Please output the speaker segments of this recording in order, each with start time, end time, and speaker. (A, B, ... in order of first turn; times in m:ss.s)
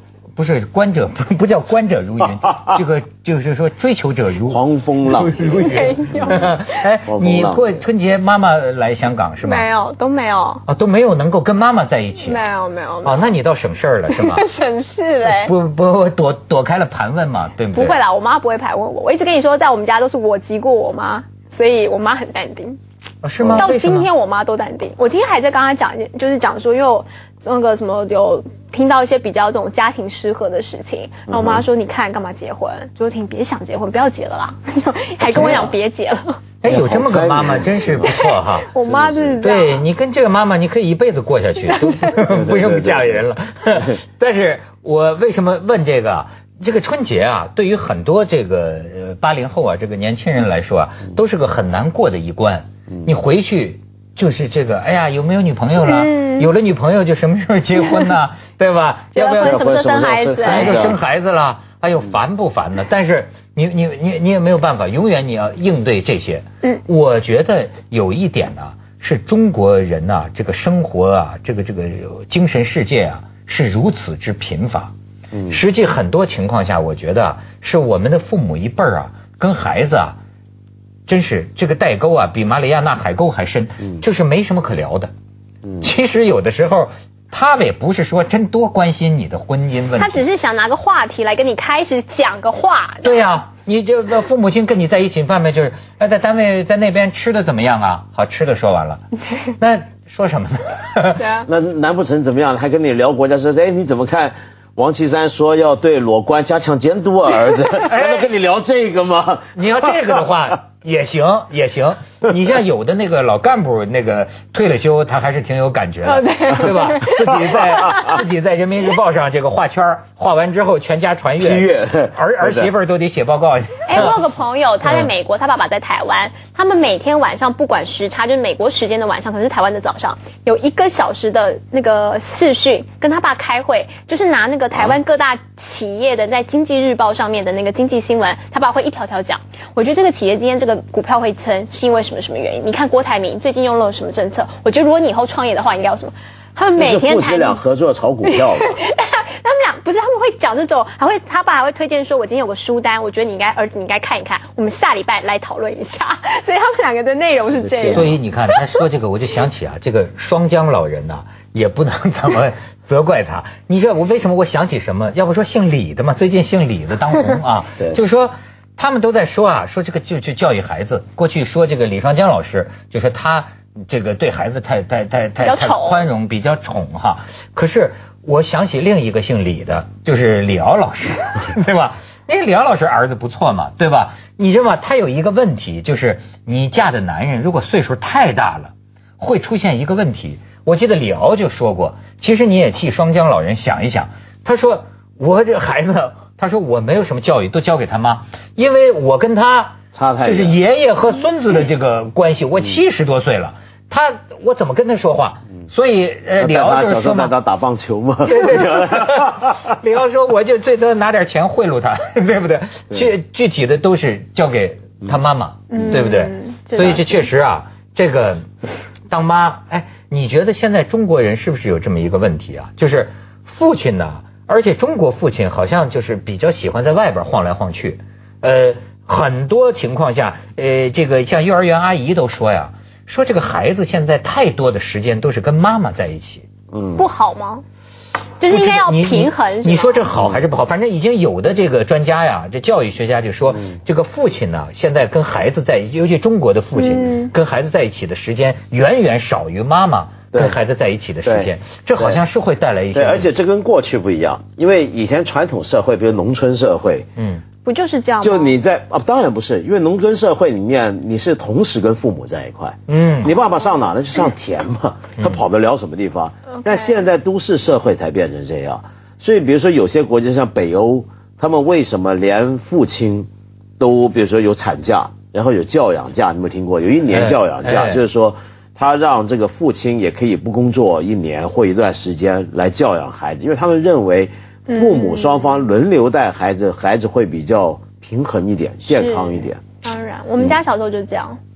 0:00.4-0:04.6 A
0:04.5-0:05.8 B
0:05.1-0:09.7 A
0:05.4-0:06.8 C
0:07.0-0:07.8 B
0:09.4-0:10.6 C
0:10.6-0:12.4 A
0:12.2-0:13.3 C
0:13.0-0:14.5 A
0:14.1-0:15.5 C
0:15.2-0:18.0 A
0:17.7-0:22.8 C
0:23.2-0:24.1 A
0:23.4-0:23.7 B
0:23.6-0:36.4 C
0:31.3-0:31.6 B
0:35.2-0:35.7 B
0:36.6-0:38.7 A
0:36.6-0:38.1 B
0:38.0-0:39.8 C
0:38.8-0:39.4 B
0:39.4-0:59.6 A
0:41.7-0:42.1 C
0:42.3-0:44.0 B
0:55.8-0:56.5 C
0:59.1-1:00.8 C
0:59.4-1:01.0 B
1:00.4-1:14.9 A
1:15.3-1:15.6 B
1:15.5-1:20.2 A
1:21.1-1:25.1 A
1:25.6-1:25.9 B
1:25.8-1:30.2 A
1:30.0-1:33.3 C
1:33.0-1:41.3 A
1:41.2-1:41.5 C
1:41.4-1:50.2 B
1:47.8-1:48.3 A
1:49.6-2:04.2 A
1:56.0-1:58.2 C
2:01.4-2:02.7 B
2:03.9-2:27.6 C
2:04.8-2:05.1 A
2:26.8-2:28.8 B
2:28.2-2:38.6 C
2:37.6-2:38.1 B
2:37.9-3:27.3 A
2:55.4-2:56.0 C
3:19.9-3:20.6 B
3:26.4-3:29.7 B
3:28.2-3:38.5 A
3:35.7-3:37.2 C
3:39.1-3:56.5 A
3:56.7-3:57.1 B
3:57.0-3:57.6 C
3:58.4-4:00.1 C
3:58.5-4:13.3 A
4:00.1-4:00.4 B
4:03.5-4:03.8 B
4:06.8-4:07.3 C
4:11.2-4:12.2 B
4:12.9-4:17.1 B
4:17.2-4:17.4 A
4:17.6-4:18.5 C
4:18.2-4:33.3 B
4:22.9-4:23.3 A
4:33.8-4:49.6 B
4:37.1-4:38.0 A
4:44.7-4:45.4 C
4:48.9-4:51.4 C